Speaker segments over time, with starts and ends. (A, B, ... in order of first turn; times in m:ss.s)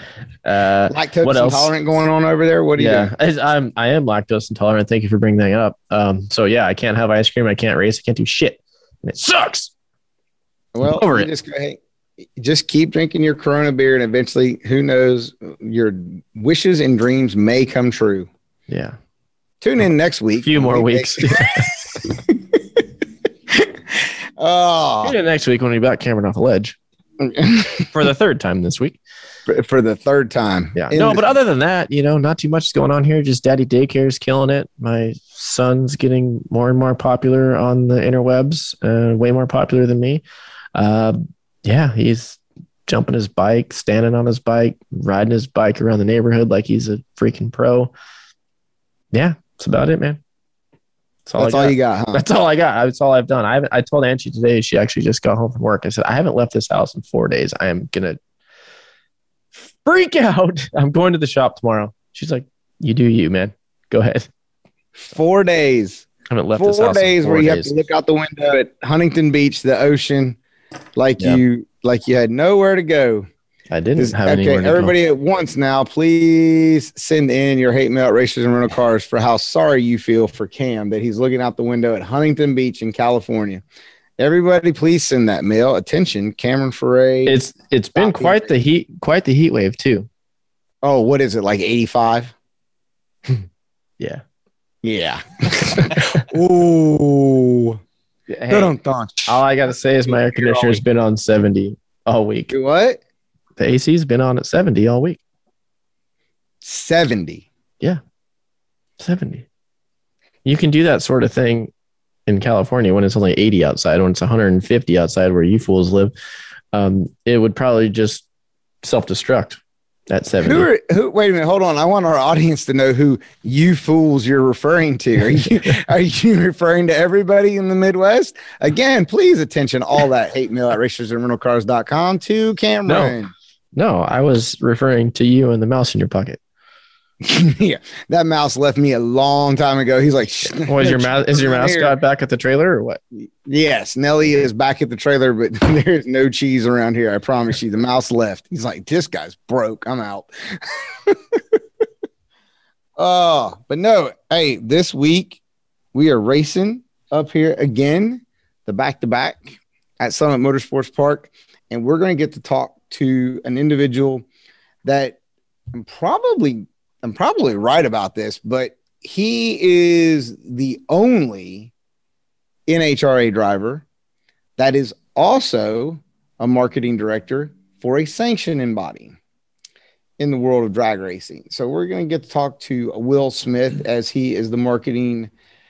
0:00.4-0:01.7 A
0:00.9-0:03.1 B
0:02.8-0:09.7 A
0:10.7-0:11.8 B
0:11.0-0:11.3 A
0:12.4-0:18.3 B
0:18.7-0:19.0 A
0:19.6-0:22.8 B
0:20.4-0:21.7 A
0:23.5-0:25.2 B
0:25.0-0:26.8 A
0:27.2-0:27.8 B
0:27.9-0:29.0 A
0:29.5-0:31.3 B
0:30.7-0:40.2 A
0:40.7-0:47.9 A
0:49.1-0:50.2 A
0:51.2-0:58.2 A
0:51.4-0:52.2 B
0:59.6-1:04.3 A
1:05.1-1:10.4 B
1:06.3-1:07.8 A
1:11.0-1:13.3 B
1:13.7-1:14.9 A
1:14.0-1:23.6 B
1:24.2-1:27.4 B
1:27.2-1:30.1 A
1:28.0-1:28.5 B
1:30.8-1:32.3 B
1:34.8-1:37.8 B
1:38.3-1:38.7 A
1:38.5-1:39.4 B
1:39.2-1:42.5 A
1:40.0-1:40.8 B
1:42.5-1:43.0 B
1:43.6-1:45.2 A
1:46.6-1:47.4 B
1:49.0-1:49.4 A
1:50.4-1:51.7 A
1:52.3-1:56.1 A
1:56.7-1:58.2 A
1:58.8-2:00.7 A
2:00.4-2:13.3 B
2:12.9-2:13.1 A
2:13.7-2:16.4 A
2:17.2-2:22.0 B
2:20.6-2:23.0 A
2:23.1-2:31.4 B
2:33.0-2:35.4 B
2:35.9-2:44.2 B
2:44.8-2:45.2 B
2:45.7-2:51.7 B
2:52.7-2:53.8 B
2:54.6-2:59.2 B
3:00.2-3:05.3 B